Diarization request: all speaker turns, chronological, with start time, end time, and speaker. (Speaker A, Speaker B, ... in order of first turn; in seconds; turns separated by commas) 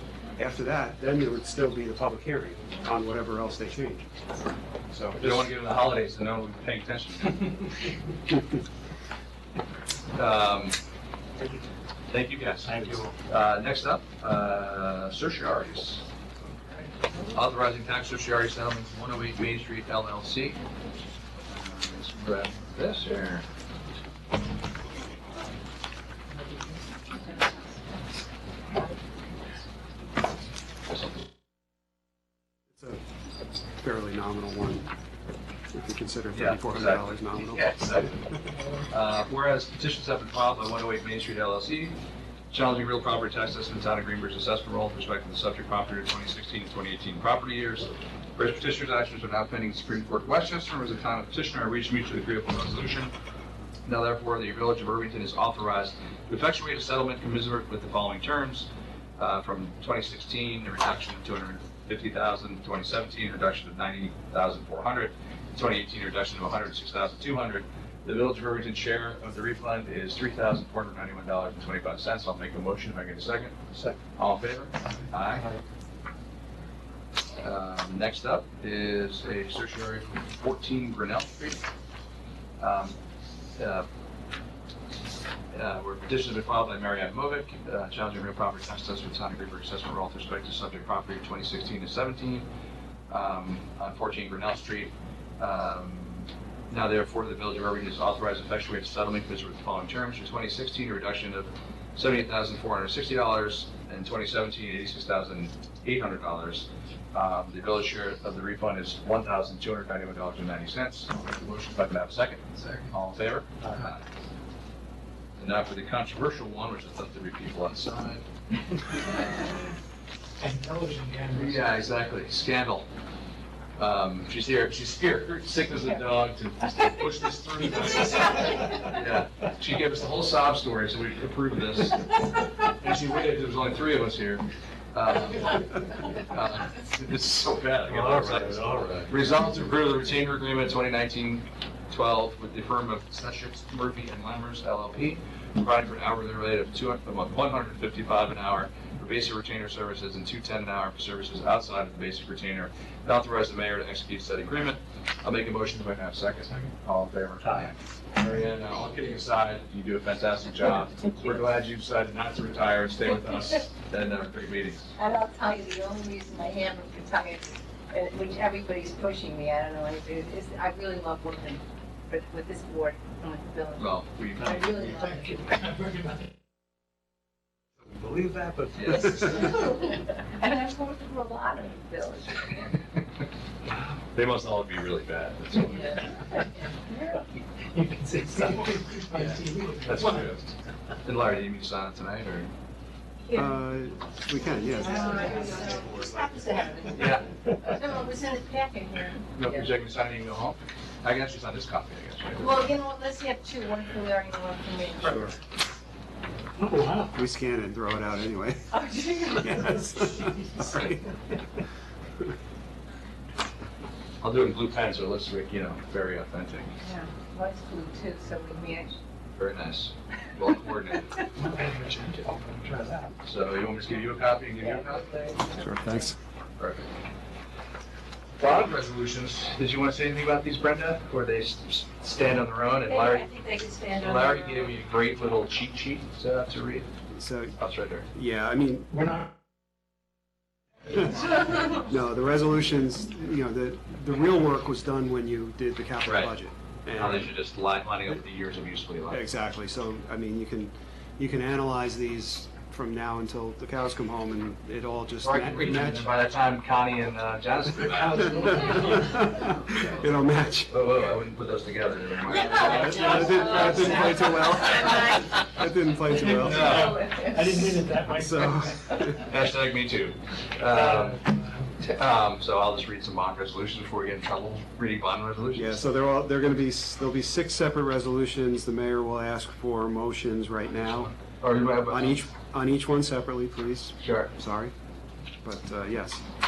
Speaker A: 0.4-4.1, Speaker A: 4.9-5.5, Speaker B: 5.2-7.7, Speaker B: 10.1-10.8, Speaker B: 12.1-16.0, Speaker C: 12.6-13.2, Speaker B: 17.3-20.6, Speaker B: 21.5-23.5, Speaker B: 30.9-31.1, Speaker A: 32.7-33.0, Speaker A: 33.7-34.9, Speaker A: 35.7-37.7, Speaker B: 36.4-38.3, Speaker B: 38.9-42.0, Speaker B: 42.5-53.1, Speaker B: 53.9-75.5, Speaker B: 77.4-81.6, Speaker B: 82.6-83.0, Speaker B: 83.6-83.9, Speaker B: 85.5-92.5, Speaker B: 93.1-114.0, Speaker B: 115.4-118.2, Speaker B: 118.9-119.8, Speaker C: 120.4-121.7, Speaker B: 121.3-122.9, Speaker B: 123.8-164.9, Speaker C: 137.9-139.1, Speaker D: 165.0-175.5, Speaker B: 173.8-174.7, Speaker C: 174.5-176.3, Speaker C: 177.8-179.3, Speaker B: 178.7-179.6, Speaker D: 179.0-182.8, Speaker B: 184.1-186.2, Speaker D: 185.7-187.2, Speaker C: 187.7-190.4, Speaker B: 189.8-190.4, Speaker B: 191.0-192.5, Speaker D: 193.2-193.6, Speaker A: 193.3-196.1, Speaker D: 194.4-199.7, Speaker C: 195.0-195.6, Speaker B: 196.9-197.3, Speaker B: 199.3-202.7, Speaker D: 202.4-205.3, Speaker A: 205.0-205.3, Speaker C: 206.6-207.2, Speaker A: 207.1-208.7, Speaker D: 208.7-209.8, Speaker A: 209.3-211.0, Speaker C: 209.7-210.8, Speaker B: 214.2-216.7, Speaker D: 216.8-219.0, Speaker B: 219.4-221.2, Speaker C: 221.4-223.2, Speaker B: 223.2-225.0, Speaker D: 224.6-226.1, Speaker A: 225.6-226.2, Speaker B: 226.6-226.9, Speaker B: 228.4-233.3, Speaker D: 232.9-234.6, Speaker B: 234.0-236.9, Speaker A: 237.1-237.6, Speaker B: 237.6-238.1, Speaker A: 238.1-238.9, Speaker C: 238.9-239.3, Speaker A: 240.9-247.3, Speaker B: 246.1-246.3, Speaker B: 246.9-249.2, Speaker A: 249.1-256.1, Speaker B: 255.2-258.7, Speaker C: 257.9-259.5, Speaker A: 258.0-260.8, Speaker B: 260.7-264.0, Speaker A: 262.3-267.0, Speaker D: 262.6-264.2, Speaker C: 266.1-268.9, Speaker B: 266.4-267.0, Speaker D: 267.1-267.5, Speaker A: 268.1-269.2, Speaker B: 269.1-271.2, Speaker C: 270.7-271.8, Speaker B: 271.8-275.8, Speaker A: 275.6-281.1, Speaker B: 280.9-282.3, Speaker A: 281.9-284.7, Speaker B: 284.0-284.3, Speaker A: 285.4-286.2